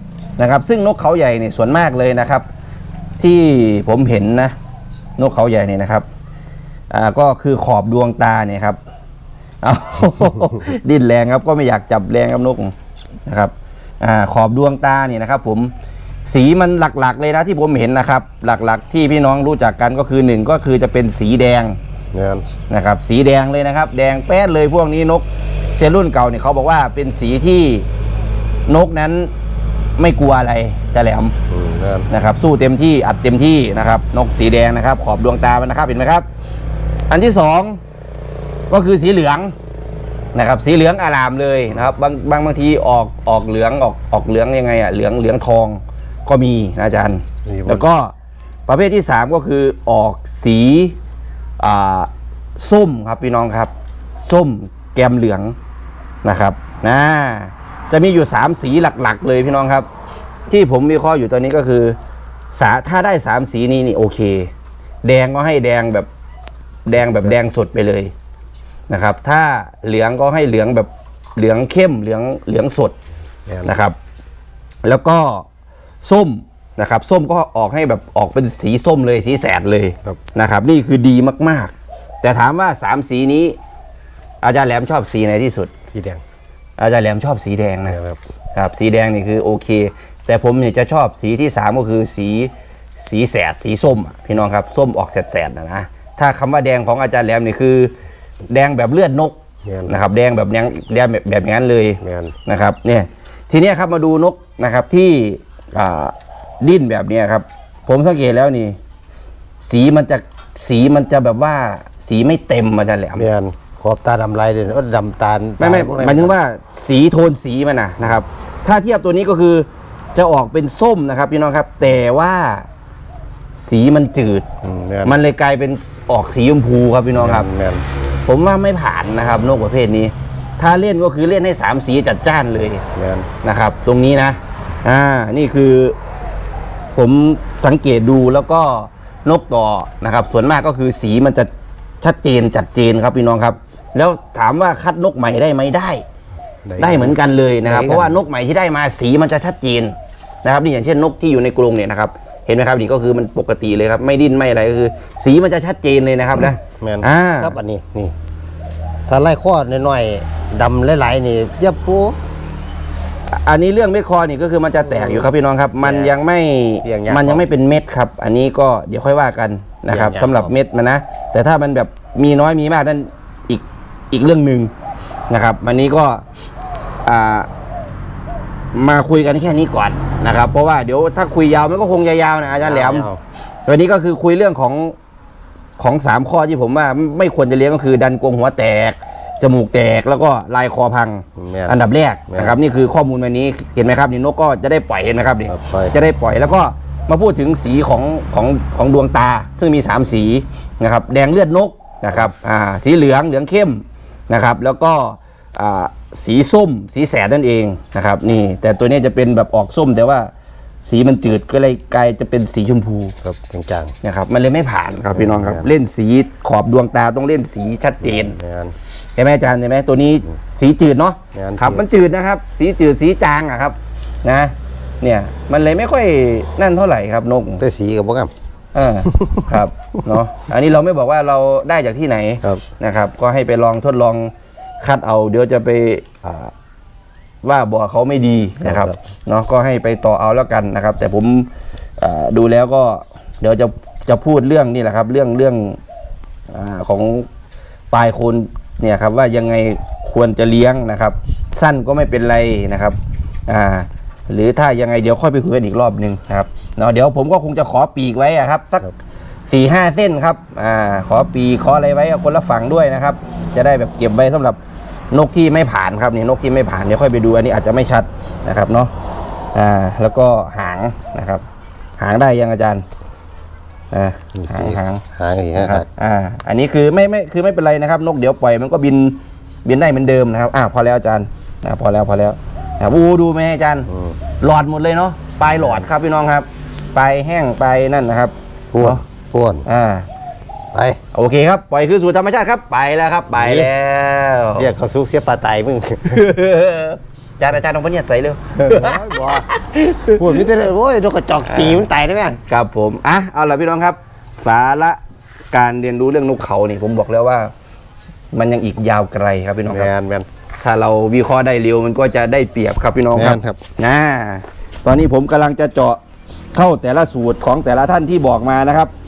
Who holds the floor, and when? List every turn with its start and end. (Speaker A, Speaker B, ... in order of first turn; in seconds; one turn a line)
Speaker A: 0.4-2.5
Speaker A: 3.2-4.5
Speaker A: 5.2-6.1
Speaker A: 6.9-8.8
Speaker A: 9.6-12.7
Speaker A: 13.3-15.7
Speaker A: 16.2-21.8
Speaker B: 22.1-22.4
Speaker A: 22.7-27.9
Speaker A: 28.7-29.3
Speaker A: 30.0-31.4
Speaker B: 31.5-32.1
Speaker A: 32.1-36.3
Speaker A: 37.1-37.8
Speaker A: 38.7-39.5
Speaker A: 40.4-48.1
Speaker B: 47.5-47.9
Speaker A: 48.7-51.0
Speaker A: 51.6-53.7
Speaker A: 54.2-55.5
Speaker A: 56.2-59.9
Speaker A: 60.5-62.0
Speaker A: 62.5-64.5
Speaker A: 65.0-66.1
Speaker A: 66.9-68.1
Speaker A: 68.9-73.0
Speaker B: 73.5-73.8
Speaker A: 73.6-74.0
Speaker A: 74.8-75.5
Speaker A: 76.0-83.6
Speaker A: 84.4-85.7
Speaker B: 85.9-86.2
Speaker A: 86.8-88.0
Speaker B: 87.8-88.2
Speaker A: 88.5-97.9
Speaker A: 98.5-108.8
Speaker B: 99.7-100.0
Speaker B: 102.0-102.3
Speaker A: 109.6-113.3
Speaker B: 113.2-116.3
Speaker A: 115.6-122.7
Speaker A: 123.5-124.5
Speaker B: 124.6-125.2
Speaker A: 125.0-127.5
Speaker B: 127.1-127.8
Speaker A: 128.3-132.8
Speaker B: 132.9-133.3
Speaker A: 133.4-136.0
Speaker A: 137.0-141.5
Speaker A: 142.0-146.0
Speaker B: 146.7-148.2
Speaker A: 146.8-157.6
Speaker B: 156.6-158.2
Speaker B: 159.1-162.2
Speaker A: 163.3-174.7
Speaker B: 164.9-165.2
Speaker B: 165.8-166.1
Speaker B: 166.8-167.5
Speaker B: 169.9-170.5
Speaker A: 175.3-176.2
Speaker A: 177.1-177.5
Speaker A: 178.7-183.1
Speaker B: 182.6-183.2
Speaker A: 183.7-184.9
Speaker A: 185.8-210.3
Speaker B: 191.4-191.8
Speaker B: 192.3-192.6
Speaker B: 195.5-195.9
Speaker A: 210.8-213.1
Speaker B: 213.2-213.9
Speaker A: 214.0-218.4
Speaker B: 215.1-215.7
Speaker B: 218.0-218.8
Speaker A: 219.2-227.6
Speaker B: 221.3-221.9
Speaker B: 227.6-228.3
Speaker A: 228.8-236.5
Speaker B: 229.0-229.5
Speaker A: 237.4-245.8
Speaker B: 238.6-239.0
Speaker A: 246.5-247.3
Speaker A: 247.9-258.9
Speaker A: 259.5-264.6
Speaker A: 265.1-268.9
Speaker A: 269.5-271.4
Speaker A: 272.0-272.9
Speaker A: 273.9-275.0
Speaker B: 274.4-275.9
Speaker A: 275.6-283.9
Speaker B: 283.9-284.2
Speaker A: 284.4-289.0
Speaker B: 285.5-285.9
Speaker B: 288.7-289.6
Speaker A: 289.7-290.1
Speaker B: 290.7-291.0
Speaker A: 291.1-294.7
Speaker B: 293.3-293.7
Speaker B: 294.6-296.2
Speaker A: 296.0-300.3
Speaker B: 298.6-299.5
Speaker B: 300.1-302.4
Speaker A: 301.5-301.8
Speaker A: 302.5-305.0
Speaker A: 305.5-307.5
Speaker A: 308.3-309.9
Speaker B: 309.7-310.3
Speaker A: 310.6-316.0
Speaker B: 313.1-313.6
Speaker A: 316.5-318.9